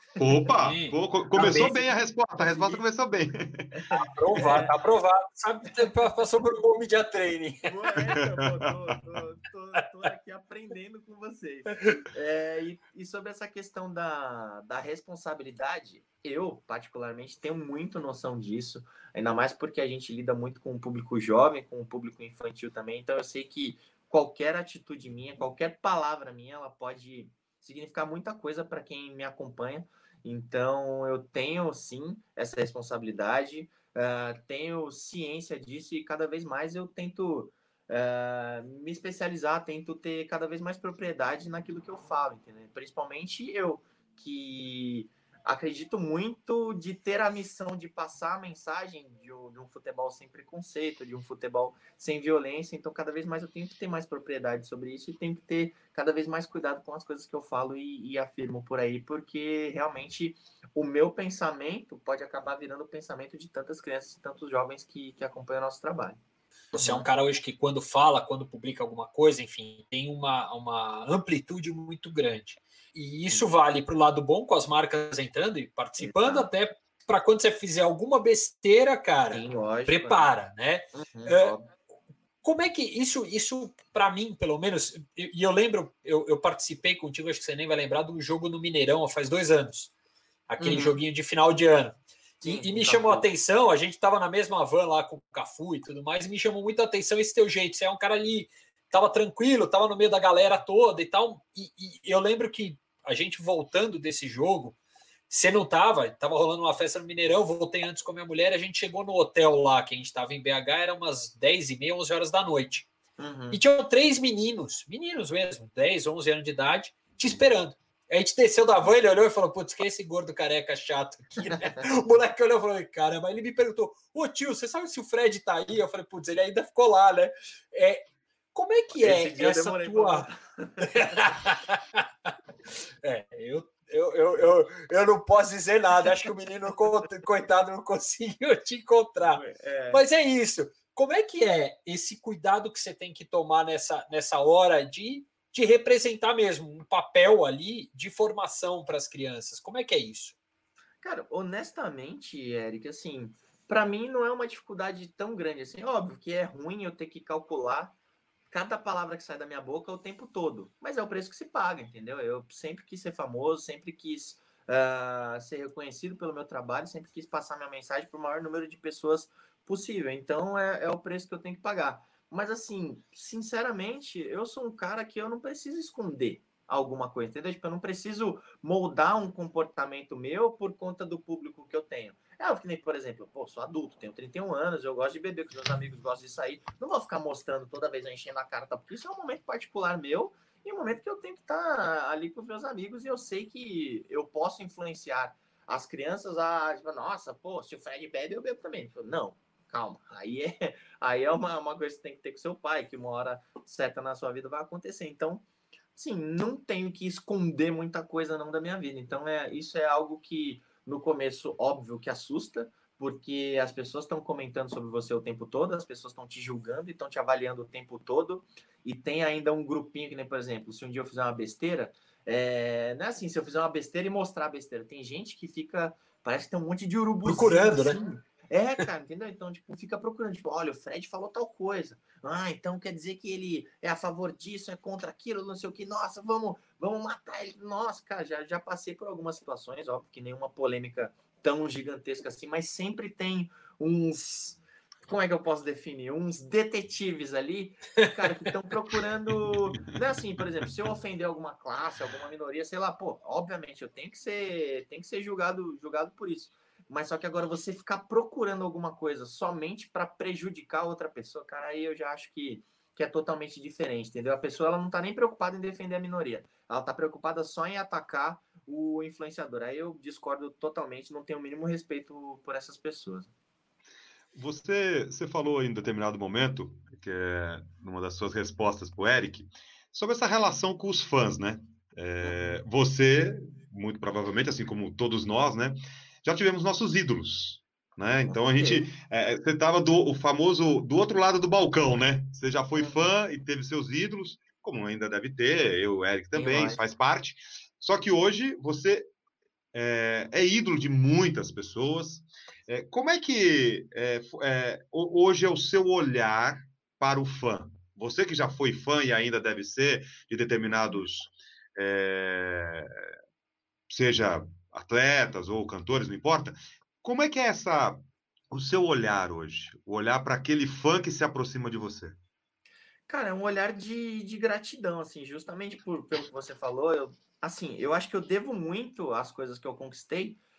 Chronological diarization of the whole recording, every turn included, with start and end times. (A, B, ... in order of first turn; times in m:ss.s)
0:00.2-0:03.8 A
0:00.2-0:00.4 B
0:00.4-0:01.7 C
0:01.3-0:02.8 B
0:03.7-0:04.7 B
0:04.0-0:08.0 C
0:05.8-0:06.0 B
0:07.6-1:06.2 B
0:08.2-0:08.7 A
1:06.7-1:21.5 C
1:06.8-1:07.1 B
1:16.0-1:16.5 B
1:19.3-1:20.3 B
1:20.9-1:21.7 B
1:22.4-1:29.9 C
1:30.5-1:44.8 C
1:30.6-1:31.0 B
1:32.4-1:33.3 B
1:45.3-1:52.9 C
1:53.2-1:53.6 B
1:53.5-2:10.3 C
2:09.0-2:11.2 B
2:10.8-2:12.3 C
2:13.0-2:30.4 C
2:19.2-2:20.0 B
2:31.0-2:38.0 B
2:38.5-3:25.4 B
3:25.9-4:33.3 B
3:47.2-3:48.0 C
4:09.4-4:09.8 A
4:34.3-4:59.1 A
4:42.2-4:42.6 B
4:48.1-4:48.9 B
4:52.8-4:53.1 B
4:56.3-4:56.8 B
4:59.7-5:13.1 A
5:13.9-5:22.2 A
5:23.1-5:30.4 B